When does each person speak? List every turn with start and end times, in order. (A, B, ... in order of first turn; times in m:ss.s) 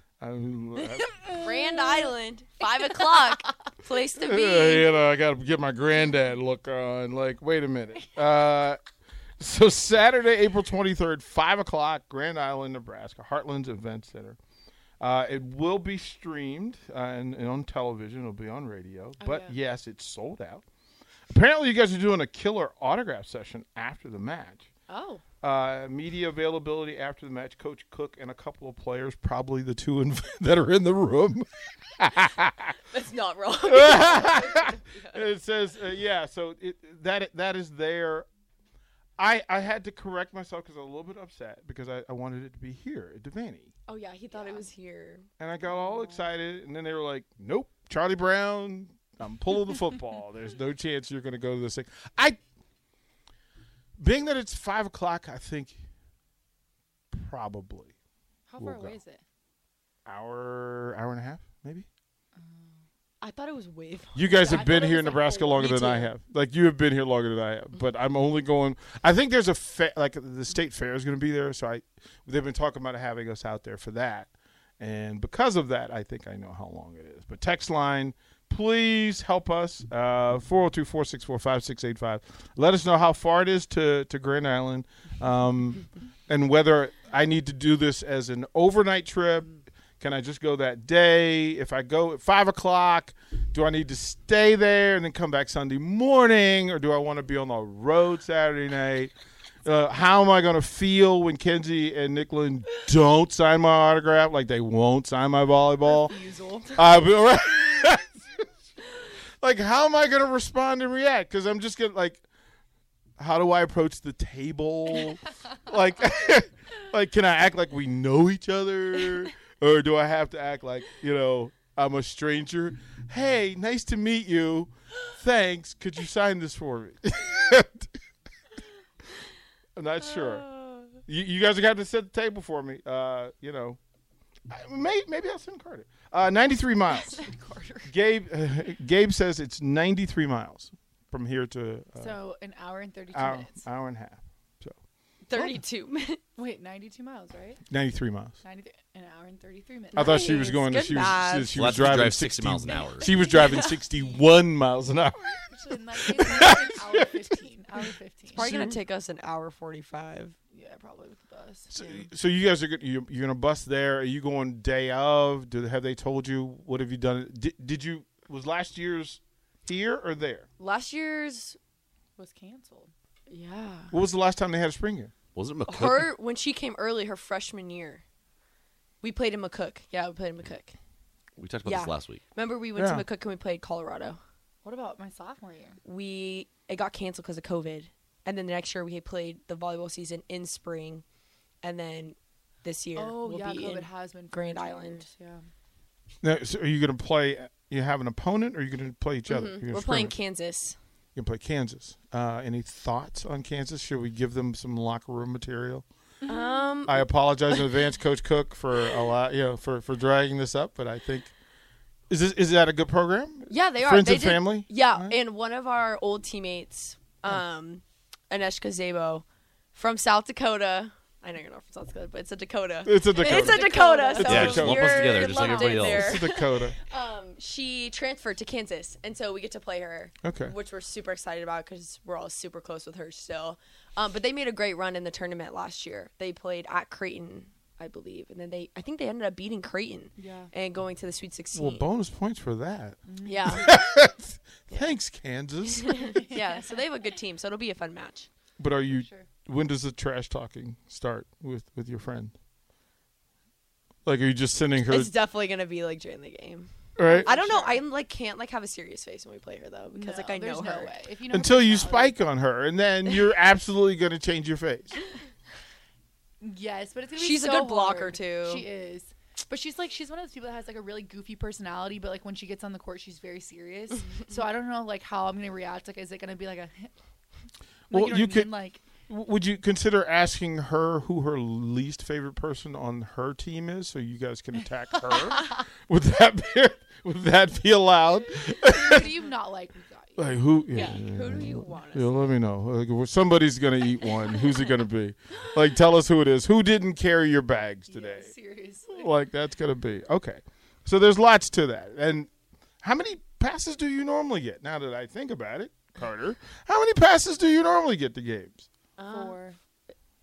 0:00.2-0:01.3 A
0:01.3-0:02.0 B
0:01.3-0:04.9 C
0:04.1-0:08.8 A
0:09.4-0:14.4 A
0:15.0-0:20.6 A
0:19.2-0:19.5 C
0:21.3-0:24.7 A
0:24.9-0:25.2 C
0:25.4-0:32.8 A
0:32.9-0:35.2 C
0:33.6-0:38.3 A
0:39.2-0:43.7 A
0:43.9-0:45.2 C
0:44.3-0:44.6 B
0:45.4-0:52.4 A
0:45.8-0:46.2 B
0:54.0-0:55.8 A
0:57.1-0:57.9 A
0:58.5-0:59.2 B
0:58.6-0:59.0 A
1:00.0-1:01.9 A
1:02.4-1:02.8 B
1:03.2-1:04.8 C
1:04.1-1:39.1 A
1:04.3-1:05.8 B
1:05.5-1:06.1 C
1:39.6-1:46.1 A
1:46.1-1:46.7 B
1:46.7-1:48.4 A
1:49.4-1:52.2 A
1:53.2-2:07.9 A
2:09.8-2:10.5 A
2:10.0-2:11.0 C
2:11.0-2:13.8 A
2:14.5-2:17.2 A
2:17.0-2:17.9 B
2:17.9-2:22.2 A
2:22.0-2:23.6 B
2:23.1-2:24.8 A
2:25.3-2:26.2 C
2:26.4-2:27.6 B
2:27.7-2:28.4 A
2:28.4-2:30.5 B
2:29.9-2:31.7 C
2:29.9-2:37.2 A
2:31.5-2:33.1 D
2:33.0-2:33.8 C
2:35.4-2:38.4 B
2:38.3-2:40.4 C
2:38.3-2:38.8 A
2:40.5-2:41.7 B
2:41.7-2:50.5 A
2:41.8-2:42.1 C
2:50.6-2:51.6 C
2:52.2-2:52.9 B
2:53.3-2:53.9 C
2:53.9-2:55.1 A
2:55.3-2:56.1 D
2:55.7-2:58.0 C
2:59.0-3:00.8 C
3:01.4-3:02.2 D
3:01.6-3:04.2 C
3:02.8-3:03.0 A
3:04.6-3:05.8 B
3:05.8-3:11.0 C
3:11.6-3:15.1 C
3:12.9-3:15.4 B
3:16.2-3:20.1 A
3:19.3-3:20.8 C
3:21.1-3:25.8 A
3:26.2-3:26.7 B
3:26.2-3:27.7 C
3:26.8-3:31.3 A
3:32.1-3:35.2 A
3:33.5-4:01.9 C
3:42.8-3:46.8 A
3:43.1-3:45.9 B
3:44.2-3:46.2 D
3:50.2-3:50.5 A
4:00.2-4:00.5 B
4:01.5-4:06.2 A
4:03.1-4:03.6 B
4:03.2-4:03.8 C
4:05.7-4:08.3 C
4:06.0-4:06.8 B
4:08.6-4:12.3 A
4:08.9-4:09.3 B
4:14.0-4:15.1 A
4:14.8-4:20.9 C
4:17.0-4:17.3 A
4:17.0-4:17.8 B
4:19.9-4:22.2 B
4:21.3-4:25.0 A
4:26.4-4:36.9 B
4:27.2-4:28.6 C
4:37.9-4:38.5 A
4:37.9-4:38.8 B
4:39.1-4:49.1 A
4:48.5-4:51.0 B
4:50.2-4:58.3 A
4:50.7-4:52.3 C
4:57.9-4:59.1 B
4:58.9-5:02.3 A
5:02.8-5:08.7 A
5:09.0-5:09.4 C
5:09.1-5:09.6 B